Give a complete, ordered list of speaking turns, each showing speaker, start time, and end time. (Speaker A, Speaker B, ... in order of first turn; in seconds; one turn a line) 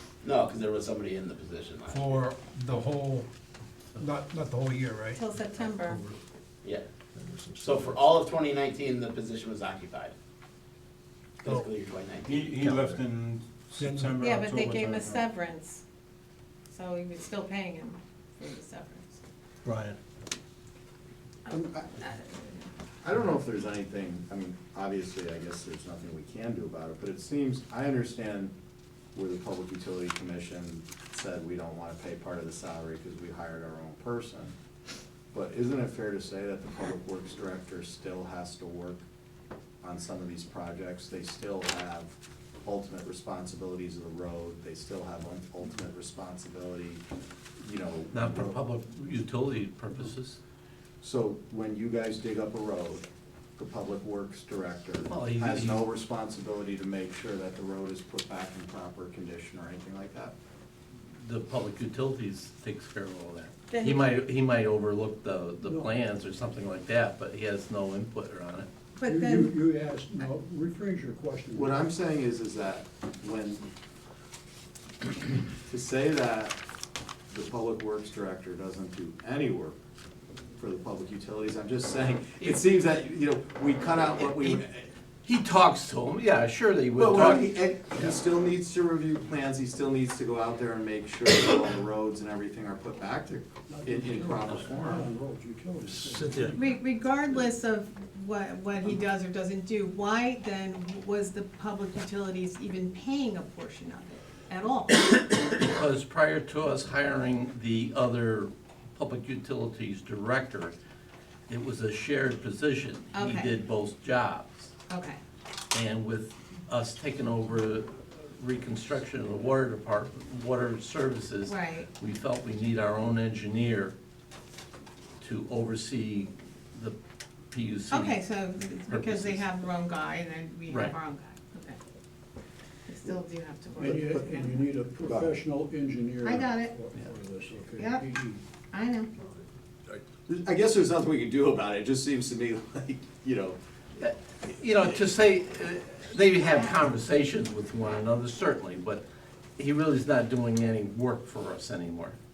Speaker A: 0.2-2.2
Speaker B: 1.9-3.3
Speaker B: 4.0-5.2
Speaker C: 5.2-6.0
Speaker D: 5.9-6.1
Speaker D: 7.2-8.2
Speaker A: 7.6-10.1
Speaker A: 11.4-12.4
Speaker E: 12.2-15.3
Speaker D: 12.5-13.1
Speaker B: 13.7-14.2
Speaker C: 14.2-15.8
Speaker C: 16.7-19.2
Speaker D: 19.6-20.0
Speaker C: 21.4-22.7
Speaker F: 23.0-28.5
Speaker F: 29.1-34.5
Speaker F: 35.3-39.0
Speaker F: 39.8-47.0
Speaker F: 47.6-48.6
Speaker G: 48.1-50.4
Speaker F: 51.0-60.4
Speaker G: 55.1-55.9
Speaker G: 61.2-68.7
Speaker C: 63.7-64.0
Speaker H: 65.7-65.9
Speaker C: 69.0-69.6
Speaker H: 69.0-71.9
Speaker F: 71.5-73.6
Speaker F: 75.2-76.6
Speaker F: 77.3-79.8
Speaker F: 80.6-84.9
Speaker G: 84.2-84.6
Speaker G: 85.2-88.2
Speaker F: 87.0-95.1
Speaker H: 93.7-96.6
Speaker D: 95.8-96.6
Speaker C: 96.5-105.1
Speaker G: 105.4-110.8
Speaker G: 111.5-114.7
Speaker C: 113.1-113.5
Speaker C: 114.9-115.2
Speaker G: 115.7-123.9
Speaker C: 121.4-121.9
Speaker G: 125.2-127.0
Speaker G: 127.5-129.5
Speaker C: 127.9-131.8
Speaker G: 130.7-131.0
Speaker C: 132.9-134.7
Speaker H: 133.8-138.4
Speaker F: 133.9-134.4
Speaker F: 135.0-135.4
Speaker C: 136.2-136.8
Speaker C: 137.8-138.2
Speaker C: 138.7-139.1
Speaker F: 140.3-143.6
Speaker G: 144.0-149.0
Speaker G: 149.6-152.2